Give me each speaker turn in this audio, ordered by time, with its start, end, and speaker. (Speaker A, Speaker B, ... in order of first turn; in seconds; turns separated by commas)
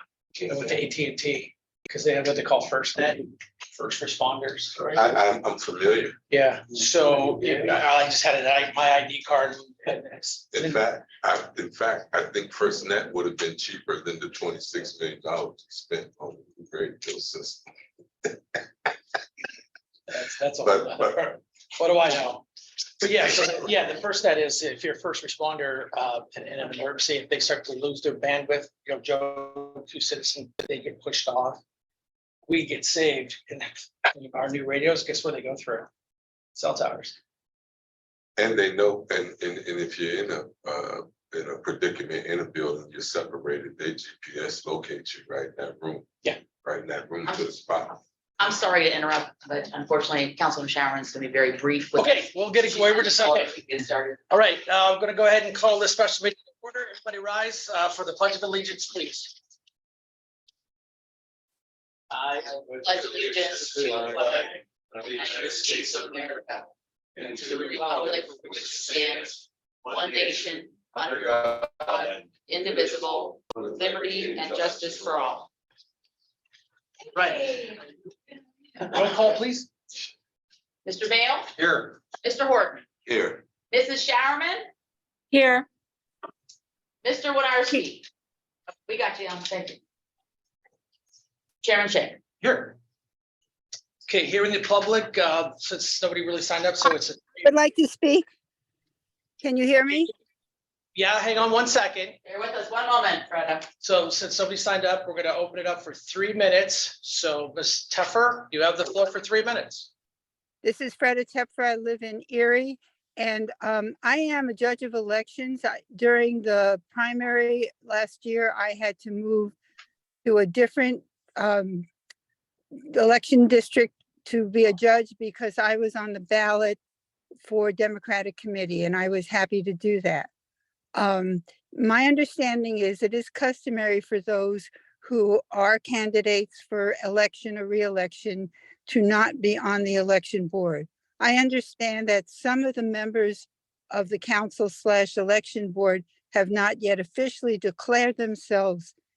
Speaker A: 0.5-5.0, Speaker B: 4.9-6.2, Speaker A: 6.3-10.8, Speaker B: 10.5-17.6, Speaker B: 18.2-18.9, Speaker A: 20.1-22.4, Speaker B: 20.6-21.4, Speaker A: 23.0-31.6, Speaker A: 32.5-35.9, Speaker A: 36.5-37.2, Speaker B: 38.4-46.1, Speaker B: 46.6-48.0, Speaker C: 47.3-47.7, Speaker C: 48.4-54.2, Speaker A: 52.0-53.5, Speaker A: 54.3-59.4, Speaker A: 62.1-62.4, Speaker C: 62.5-64.5, Speaker C: 65.0-66.6, Speaker C: 67.3-75.5, Speaker A: 77.2-77.7, Speaker A: 78.8-79.7, Speaker C: 80.8-81.5, Speaker A: 81.6-81.9, Speaker C: 82.2-82.8, Speaker B: 83.1-83.4, Speaker C: 83.7-84.7, Speaker C: 87.0-88.1, Speaker C: 88.9-89.8, Speaker C: 91.6-92.2, Speaker A: 92.4-92.8, Speaker A: 94.0-97.5, Speaker D: 97.4-98.3, Speaker D: 99.4-100.1, Speaker A: 101.0-102.2, Speaker C: 102.2-103.7, Speaker A: 103.8-109.9, Speaker D: 110.6-119.5, Speaker D: 120.2-121.9, Speaker D: 122.9-126.8, Speaker D: 127.4-130.3, Speaker D: 131.0-148.9